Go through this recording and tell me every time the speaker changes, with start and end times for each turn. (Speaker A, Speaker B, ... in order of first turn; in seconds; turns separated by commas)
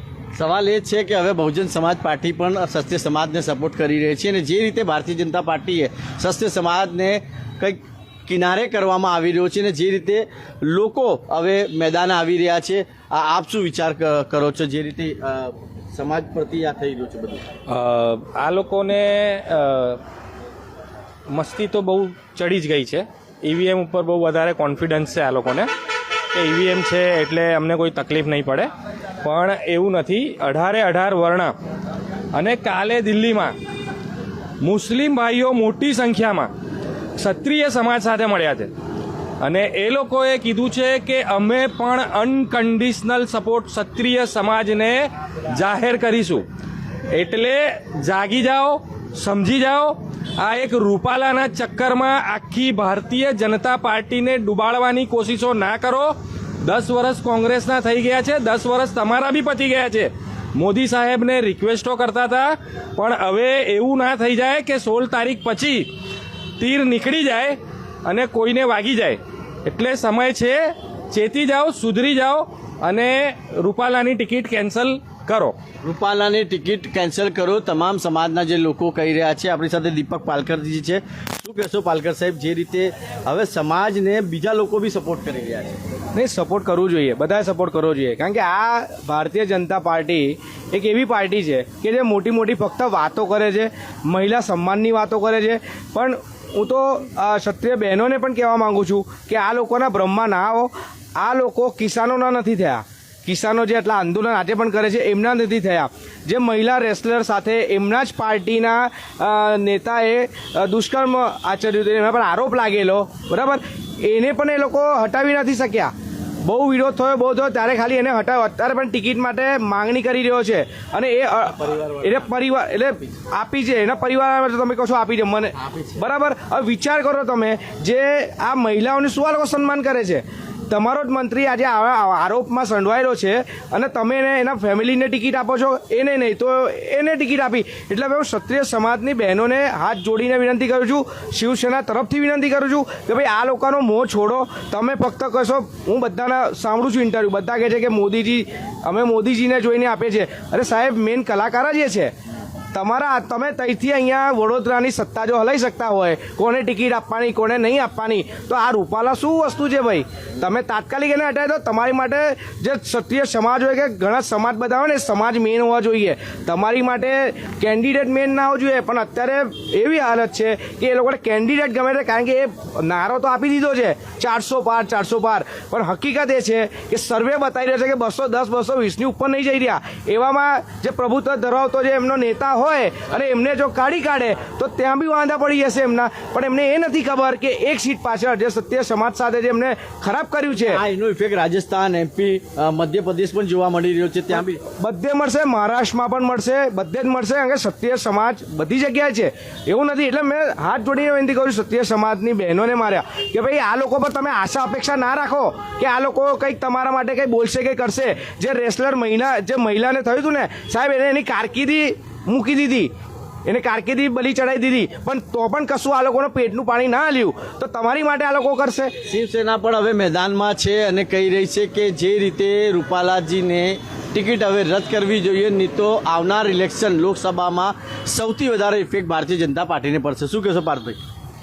Speaker A: 0.3-17.4, Speaker B: 17.7-20.0, Speaker B: 21.3-25.7, Speaker B: 26.3-28.7, Speaker B: 29.2-31.5, Speaker B: 32.3-33.5, Speaker B: 34.6-36.5, Speaker B: 37.2-38.7, Speaker B: 39.4-46.4, Speaker B: 47.1-65.9, Speaker B: 66.6-75.6, Speaker A: 75.8-85.8, Speaker C: 86.1-152.1, Speaker A: 121.5-122.3, Speaker A: 125.6-126.0, Speaker C: 152.7-190.8, Speaker A: 190.6-194.6, Speaker C: 194.7-212.9, Speaker C: 213.4-218.9, Speaker A: 219.1-231.0